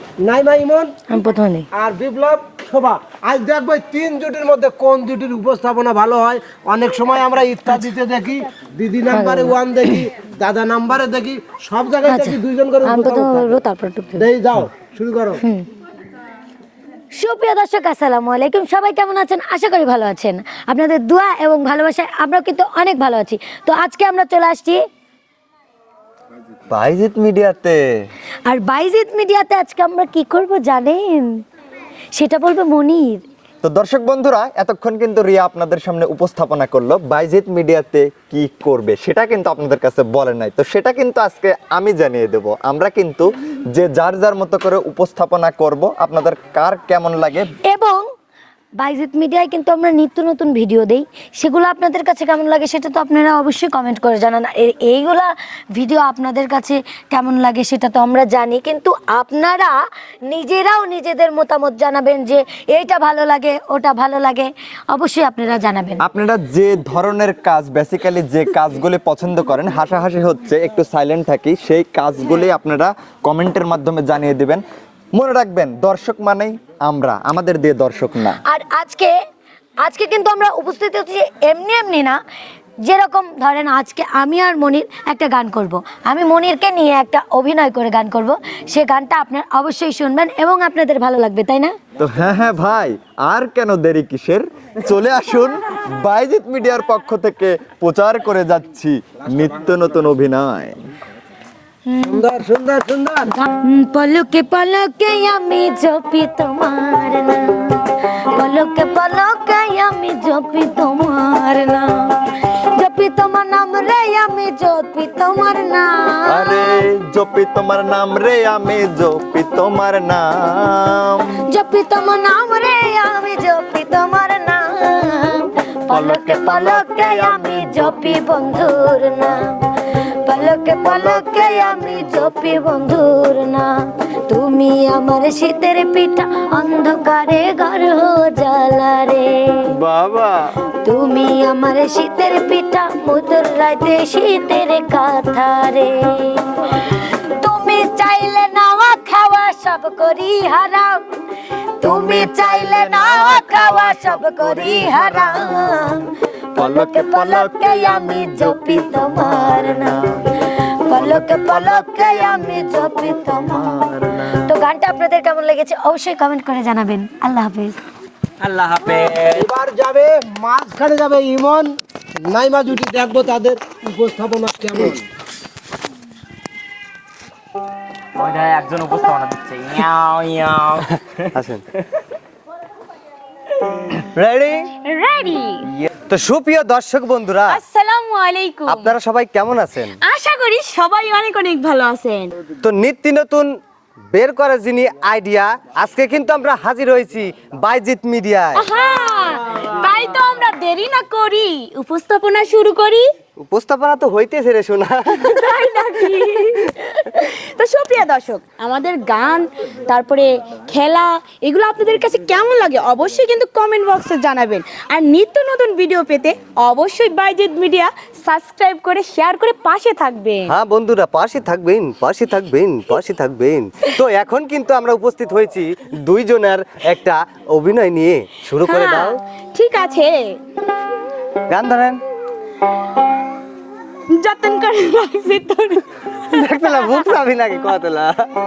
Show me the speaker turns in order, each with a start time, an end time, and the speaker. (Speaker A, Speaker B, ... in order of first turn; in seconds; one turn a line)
Speaker A: 0.2-0.9
Speaker B: 1.1-1.7
Speaker A: 1.7-13.6
Speaker B: 9.1-9.6
Speaker B: 12.0-14.3
Speaker A: 14.2-15.4
Speaker B: 17.2-24.8
Speaker C: 26.7-28.1
Speaker B: 28.5-31.3
Speaker B: 32.1-33.2
Speaker C: 33.6-47.5
Speaker B: 47.7-48.0
Speaker B: 48.8-59.7
Speaker B: 60.3-66.0
Speaker C: 66.0-74.6
Speaker C: 75.1-78.4
Speaker B: 78.5-79.1
Speaker B: 79.8-82.2
Speaker B: 82.8-91.7
Speaker C: 92.0-100.8
Speaker B: 101.9-102.2
Speaker A: 102.0-103.3
Speaker B: 103.3-111.9
Speaker B: 112.8-116.8
Speaker C: 116.3-121.3
Speaker B: 121.5-129.4
Speaker C: 125.9-128.2
Speaker B: 130.2-133.7
Speaker C: 130.8-132.2
Speaker B: 134.3-139.7
Speaker C: 139.7-140.5
Speaker B: 140.8-151.0
Speaker B: 151.8-156.0
Speaker C: 151.8-155.7
Speaker B: 156.5-160.0
Speaker C: 156.6-160.3
Speaker B: 160.8-163.7
Speaker C: 160.9-164.5
Speaker B: 164.4-167.8
Speaker D: 168.4-169.4
Speaker A: 169.3-175.0
Speaker D: 178.2-181.3
Speaker E: 181.3-181.6
Speaker E: 184.1-184.6
Speaker F: 184.9-185.6
Speaker E: 186.1-187.5
Speaker F: 187.4-189.0
Speaker E: 188.7-189.9
Speaker F: 190.0-192.3
Speaker E: 192.5-193.5
Speaker E: 194.1-198.6
Speaker F: 198.5-203.1
Speaker E: 203.4-205.0
Speaker F: 205.1-220.6
Speaker E: 220.5-229.1
Speaker F: 228.6-230.3
Speaker E: 231.5-232.0
Speaker F: 234.1-237.2
Speaker E: 236.4-238.3